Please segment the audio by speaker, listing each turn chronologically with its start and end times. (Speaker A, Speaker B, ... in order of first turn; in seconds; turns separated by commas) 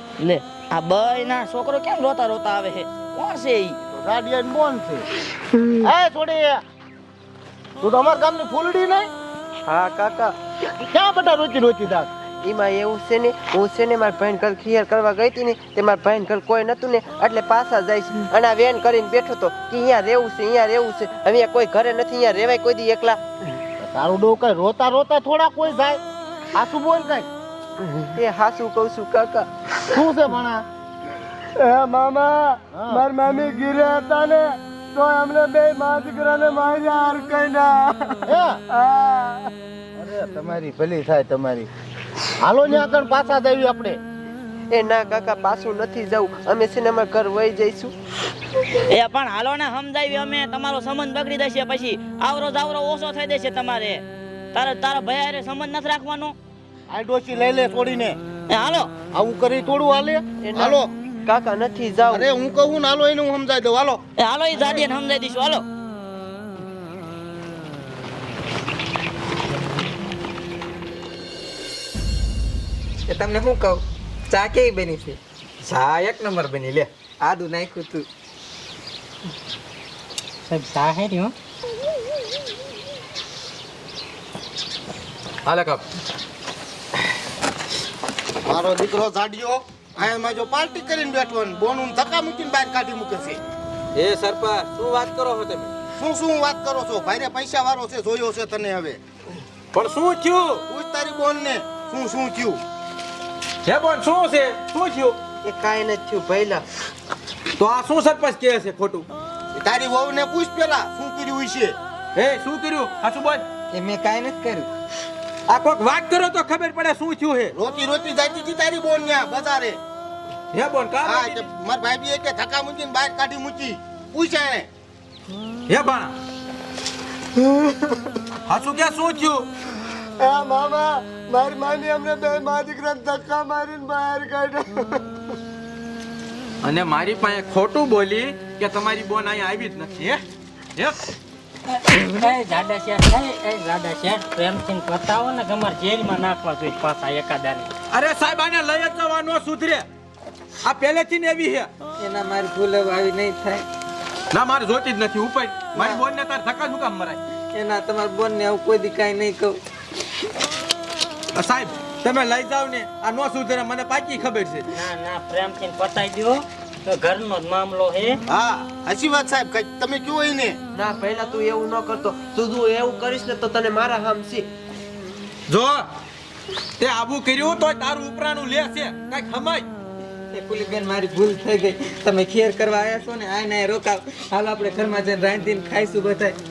Speaker A: 0.2-3.8, Speaker B: 3.9-5.0, Speaker B: 5.9-6.6, Speaker B: 7.8-9.1, Speaker C: 9.7-10.3, Speaker B: 10.9-12.1, Speaker C: 12.4-23.2, Speaker B: 23.8-26.0, Speaker B: 26.6-27.3, Speaker C: 28.1-29.5, Speaker B: 29.9-30.6, Speaker D: 31.6-39.1, Speaker B: 38.3-38.6, Speaker B: 40.0-41.7, Speaker B: 42.4-44.0, Speaker C: 44.7-47.9, Speaker A: 48.9-54.0, Speaker A: 54.5-56.4, Speaker B: 56.9-58.2, Speaker A: 58.5-59.0, Speaker B: 59.1-60.9, Speaker C: 60.4-62.3, Speaker B: 62.1-64.0, Speaker A: 64.2-65.6, Speaker E: 73.1-75.2, Speaker F: 75.6-76.9, Speaker E: 77.2-78.0, Speaker G: 80.5-81.3, Speaker F: 85.5-85.8, Speaker B: 88.5-93.4, Speaker F: 94.0-95.7, Speaker B: 96.0-99.0, Speaker F: 99.7-100.6, Speaker B: 100.7-102.6, Speaker F: 103.7-105.2, Speaker C: 105.4-106.7, Speaker F: 107.6-109.1, Speaker B: 109.5-111.8, Speaker F: 112.2-113.4, Speaker E: 113.7-114.7, Speaker F: 115.5-117.5, Speaker B: 117.6-119.8, Speaker F: 120.5-121.5, Speaker B: 121.0-124.7, Speaker F: 125.7-126.1, Speaker F: 128.5-129.5, Speaker D: 130.2-135.0, Speaker F: 136.6-140.2, Speaker G: 141.8-147.7, Speaker F: 147.9-149.9, Speaker F: 150.6-151.7, Speaker E: 152.0-153.7, Speaker F: 154.3-157.2, Speaker E: 155.8-156.0, Speaker E: 157.5-159.6, Speaker F: 161.3-164.7, Speaker G: 164.7-168.2, Speaker B: 168.3-170.6, Speaker C: 170.7-174.5, Speaker F: 175.5-175.8, Speaker F: 176.8-179.7, Speaker E: 180.3-186.4